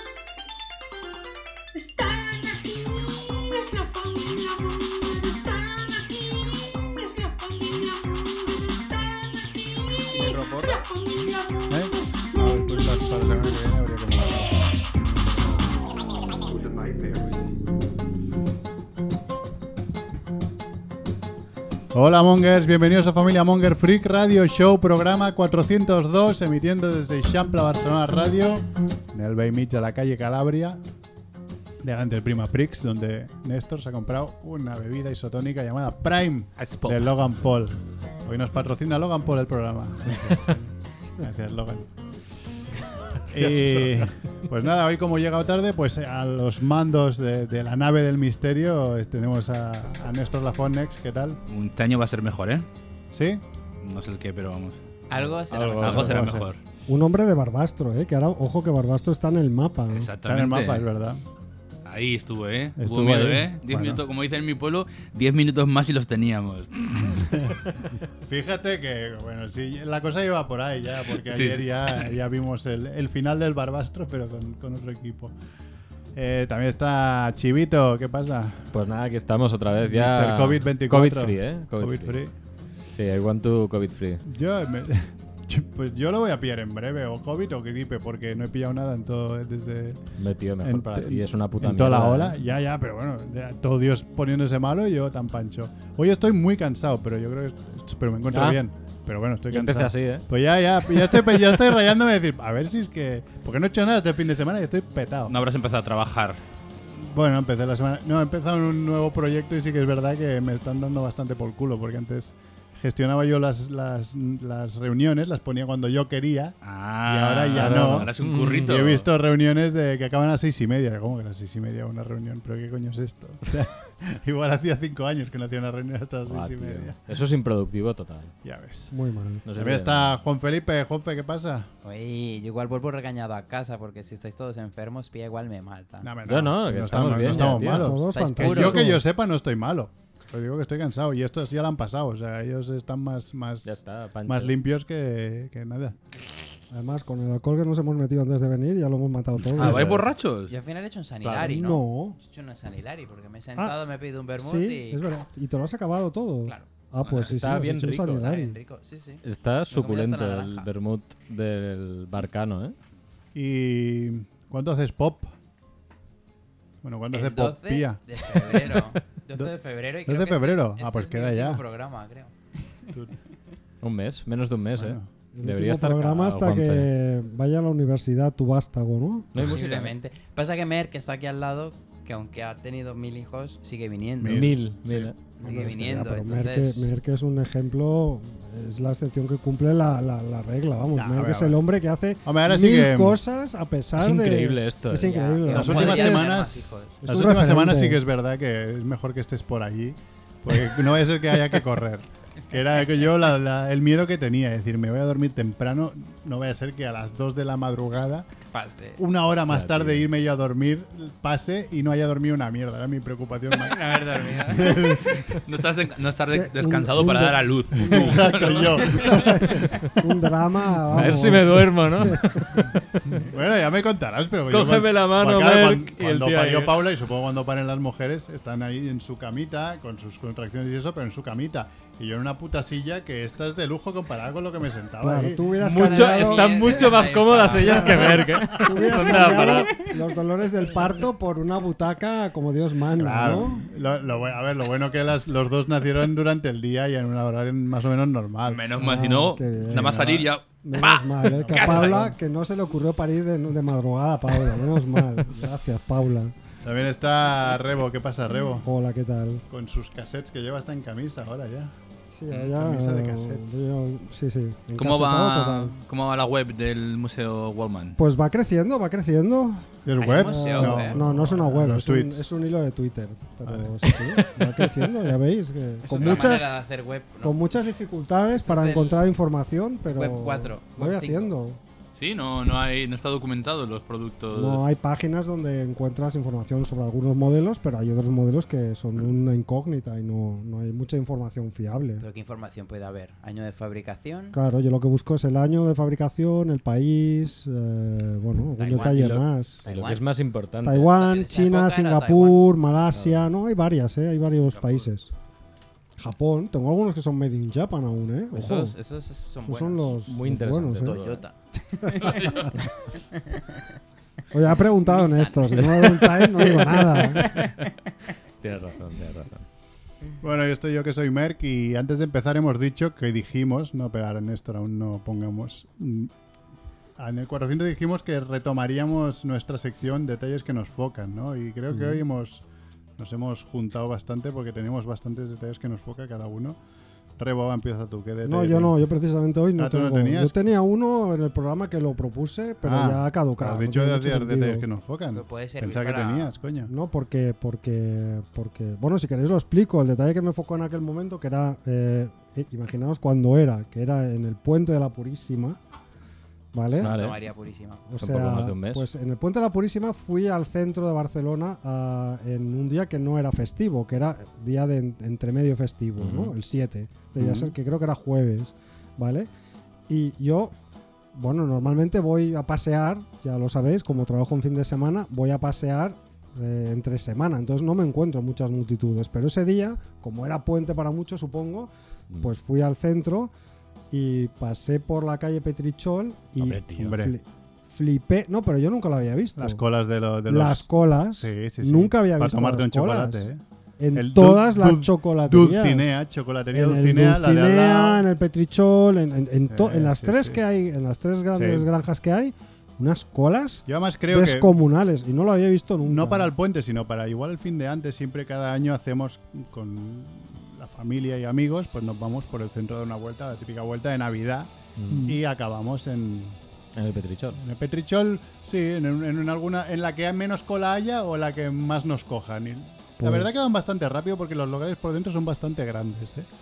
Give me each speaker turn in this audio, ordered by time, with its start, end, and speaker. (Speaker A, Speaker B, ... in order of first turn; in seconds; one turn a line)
Speaker A: 1.7-12.1
Speaker B: 10.1-10.8
Speaker C: 11.7-15.7
Speaker C: 21.9-30.8
Speaker C: 31.8-41.9
Speaker D: 36.6-37.1
Speaker C: 43.3-51.4
Speaker D: 51.5-52.7
Speaker C: 53.1-53.4
Speaker D: 53.8-54.8
Speaker E: 55.1-56.3
Speaker B: 55.5-56.4
Speaker D: 55.8-56.6
Speaker C: 55.8-56.5
Speaker F: 56.9-60.1
Speaker D: 59.9-60.9
Speaker C: 60.3-61.2
Speaker D: 61.9-67.6
Speaker C: 62.8-64.0
Speaker C: 68.2-75.3
Speaker D: 71.3-72.1
Speaker C: 76.2-78.7
Speaker B: 78.7-82.2
Speaker C: 79.8-82.3
Speaker B: 83.0-84.2
Speaker C: 84.2-90.1
Speaker B: 90.2-92.4
Speaker C: 90.6-105.4
Speaker B: 98.3-98.6
Speaker B: 99.5-100.2
Speaker D: 105.3-106.4
Speaker C: 106.9-118.1
Speaker D: 116.6-119.0
Speaker B: 117.5-118.8
Speaker C: 118.7-127.0
Speaker B: 126.3-128.3
Speaker C: 128.4-128.9
Speaker F: 128.9-129.4
Speaker B: 129.4-130.1
Speaker C: 129.6-131.7
Speaker E: 131.8-136.2
Speaker C: 136.0-143.7
Speaker B: 136.3-138.0
Speaker E: 137.3-138.9
Speaker F: 137.6-139.0
Speaker B: 143.6-144.5
Speaker C: 144.3-146.0
Speaker F: 146.7-150.0
Speaker D: 149.6-150.5
Speaker B: 149.6-149.9
Speaker C: 149.6-150.0
Speaker E: 150.5-155.1
Speaker B: 151.2-151.6
Speaker F: 151.4-152.2
Speaker F: 154.4-158.6
Speaker D: 157.1-157.3
Speaker B: 157.2-158.3
Speaker E: 158.2-160.7
Speaker B: 159.2-162.8
Speaker C: 163.3-165.3
Speaker C: 166.8-168.0
Speaker E: 167.1-172.3
Speaker C: 169.3-171.6
Speaker B: 173.8-176.9
Speaker C: 174.8-175.1
Speaker F: 175.3-179.3
Speaker B: 179.3-179.9
Speaker E: 179.4-184.6
Speaker C: 184.2-185.1
Speaker B: 184.3-185.2
Speaker E: 185.4-186.9
Speaker F: 185.4-196.3
Speaker C: 190.9-191.6
Speaker C: 192.2-193.2
Speaker B: 194.0-195.2
Speaker E: 194.9-196.9
Speaker C: 195.5-208.3
Speaker F: 197.0-198.0
Speaker E: 208.5-209.0
Speaker C: 209.0-215.2
Speaker B: 209.5-210.0
Speaker E: 213.5-214.9
Speaker D: 215.3-219.2
Speaker F: 216.3-218.3
Speaker C: 217.8-219.5
Speaker F: 219.0-222.7
Speaker B: 220.9-222.7
Speaker C: 223.1-235.5
Speaker B: 224.5-226.7
Speaker F: 235.0-236.6
Speaker B: 235.6-239.9
Speaker E: 235.8-238.6
Speaker F: 237.6-243.7
Speaker C: 243.0-248.7
Speaker D: 248.5-252.1
Speaker F: 248.8-256.3
Speaker C: 249.7-250.3
Speaker C: 256.6-258.7
Speaker F: 258.6-259.4
Speaker C: 259.5-261.7
Speaker F: 262.1-265.8
Speaker C: 262.3-263.7
Speaker D: 264.8-268.0
Speaker F: 268.0-276.5
Speaker C: 269.9-272.3
Speaker E: 270.0-271.0
Speaker C: 273.4-273.9
Speaker B: 274.4-274.9
Speaker E: 275.8-277.7
Speaker D: 275.9-276.4
Speaker F: 277.2-281.6
Speaker E: 278.4-279.0
Speaker E: 279.9-281.3
Speaker D: 281.9-284.6
Speaker F: 284.3-292.0
Speaker E: 292.0-294.4
Speaker F: 294.3-299.6
Speaker E: 298.6-300.1
Speaker B: 298.7-300.9
Speaker F: 300.6-305.1
Speaker E: 300.9-302.5
Speaker B: 302.9-303.3
Speaker F: 306.0-308.8
Speaker E: 308.3-310.0
Speaker F: 309.4-311.0
Speaker B: 309.9-311.2
Speaker E: 310.8-313.6
Speaker F: 311.8-312.5
Speaker F: 314.3-317.2
Speaker E: 314.8-317.7
Speaker B: 317.1-317.5
Speaker B: 318.4-319.4
Speaker C: 320.2-326.1
Speaker C: 327.0-332.4
Speaker C: 333.0-336.6
Speaker C: 337.2-338.8
Speaker F: 338.2-344.6
Speaker C: 339.6-340.4
Speaker C: 342.6-346.7
Speaker E: 345.1-346.3
Speaker F: 346.7-355.6
Speaker F: 356.5-356.9
Speaker B: 356.8-357.2
Speaker E: 356.8-357.9
Speaker F: 357.9-369.3
Speaker B: 358.0-358.9
Speaker B: 366.0-366.4
Speaker C: 367.2-367.5
Speaker F: 369.9-370.5
Speaker F: 371.1-383.3
Speaker F: 383.9-389.6
Speaker B: 386.4-386.9
Speaker C: 386.7-387.1
Speaker C: 389.4-393.4
Speaker F: 390.3-393.3
Speaker F: 393.8-395.9
Speaker C: 393.9-398.1
Speaker F: 396.5-406.3
Speaker C: 399.5-400.4
Speaker C: 401.4-401.7
Speaker C: 403.7-404.5
Speaker C: 405.8-416.4
Speaker B: 414.8-415.1
Speaker B: 416.8-417.4
Speaker C: 417.4-426.3
Speaker F: 423.0-423.4